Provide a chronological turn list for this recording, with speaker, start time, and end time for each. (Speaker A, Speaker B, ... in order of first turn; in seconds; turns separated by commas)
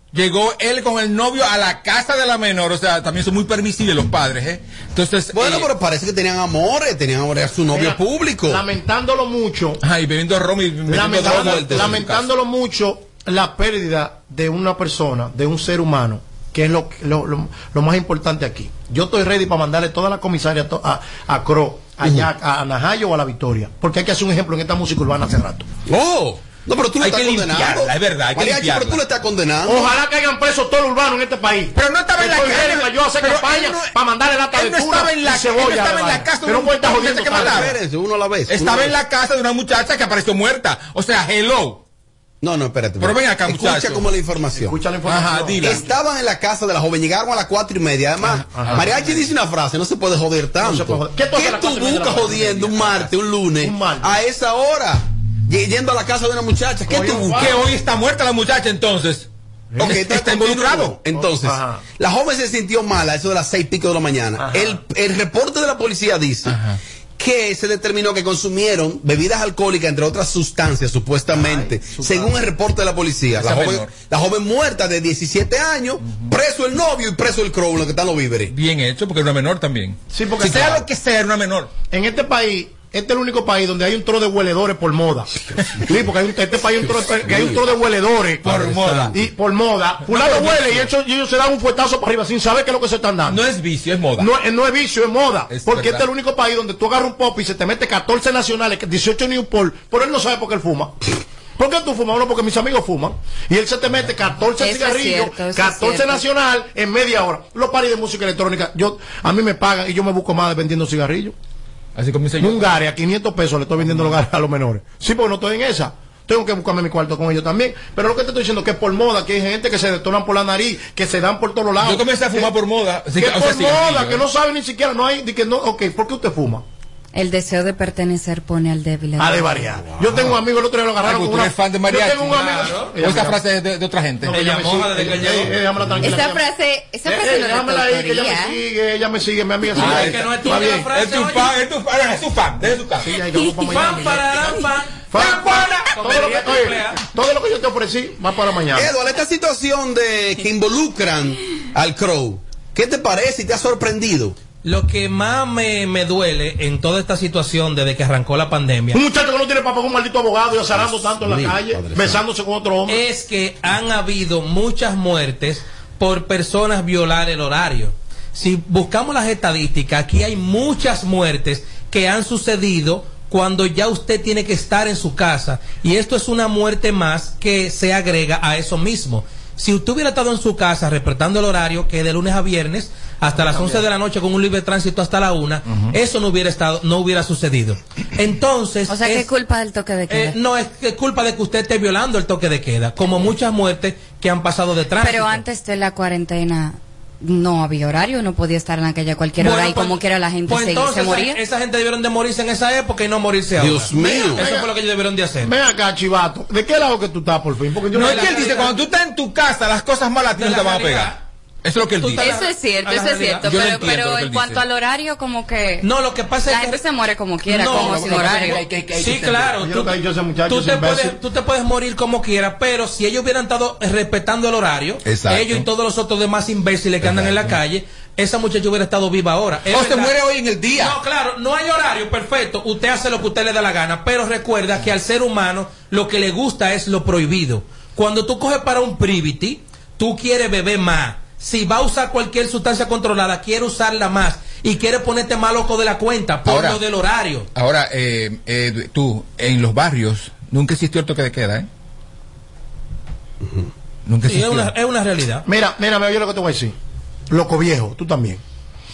Speaker A: 0.1-5.7, Speaker B: 5.3-8.6, Speaker C: 7.7-9.8, Speaker A: 9.8-12.3, Speaker C: 10.9-25.7, Speaker B: 11.2-11.9, Speaker B: 22.0-22.3, Speaker B: 25.9-29.9, Speaker A: 27.0-29.0, Speaker C: 29.6-37.7, Speaker A: 31.8-34.0, Speaker A: 34.5-37.8, Speaker B: 37.3-39.0, Speaker A: 38.5-41.8, Speaker B: 42.4-44.8, Speaker A: 43.0-44.0, Speaker C: 44.6-45.8, Speaker A: 45.1-45.8, Speaker B: 45.6-57.5, Speaker A: 48.5-48.8, Speaker C: 48.5-48.9, Speaker C: 50.6-54.2, Speaker C: 56.9-57.6, Speaker A: 57.3-59.3, Speaker B: 59.8-66.5, Speaker A: 59.8-61.0, Speaker C: 61.4-61.8, Speaker C: 64.4-64.8, Speaker A: 66.5-66.8, Speaker B: 67.2-78.5, Speaker C: 71.3-72.4, Speaker A: 73.4-73.9, Speaker A: 78.5-81.7, Speaker C: 80.1-80.9, Speaker C: 81.9-93.4, Speaker B: 87.2-87.6, Speaker A: 88.4-89.1, Speaker A: 90.1-90.9, Speaker A: 93.3-94.3, Speaker C: 94.2-101.0, Speaker A: 95.5-96.0, Speaker C: 101.6-111.3, Speaker D: 104.6-106.2, Speaker A: 112.0-112.8, Speaker C: 112.4-122.5, Speaker A: 121.8-124.2, Speaker C: 123.1-126.6, Speaker D: 127.1-129.7, Speaker C: 129.2-133.4, Speaker A: 131.0-134.3, Speaker E: 132.3-132.9, Speaker C: 134.2-136.5, Speaker E: 134.3-135.5, Speaker D: 136.0-138.6, Speaker C: 137.0-140.9, Speaker E: 139.8-141.5, Speaker A: 139.8-143.1, Speaker C: 143.0-148.9, Speaker E: 143.3-147.0, Speaker B: 148.7-154.3, Speaker E: 154.6-159.0, Speaker C: 158.9-163.0, Speaker B: 160.7-162.2, Speaker E: 162.9-189.3, Speaker D: 188.9-190.4, Speaker E: 190.1-195.4, Speaker D: 195.0-201.4, Speaker E: 199.4-205.5, Speaker B: 203.6-204.4, Speaker C: 203.9-204.7, Speaker C: 205.4-208.6, Speaker A: 207.9-211.1, Speaker E: 207.9-208.8, Speaker E: 210.3-211.2, Speaker A: 211.6-212.4, Speaker E: 212.0-213.5, Speaker D: 212.2-215.9, Speaker A: 213.4-214.6, Speaker E: 215.8-216.8, Speaker D: 216.4-218.6, Speaker E: 217.4-230.1, Speaker A: 217.7-219.5, Speaker C: 219.6-221.2, Speaker A: 225.1-225.6, Speaker A: 227.0-227.5, Speaker A: 229.7-231.0, Speaker E: 230.7-247.5, Speaker A: 246.4-246.8, Speaker A: 247.5-251.7, Speaker A: 254.1-254.7, Speaker E: 254.2-255.5, Speaker C: 255.5-256.8, Speaker C: 257.3-258.4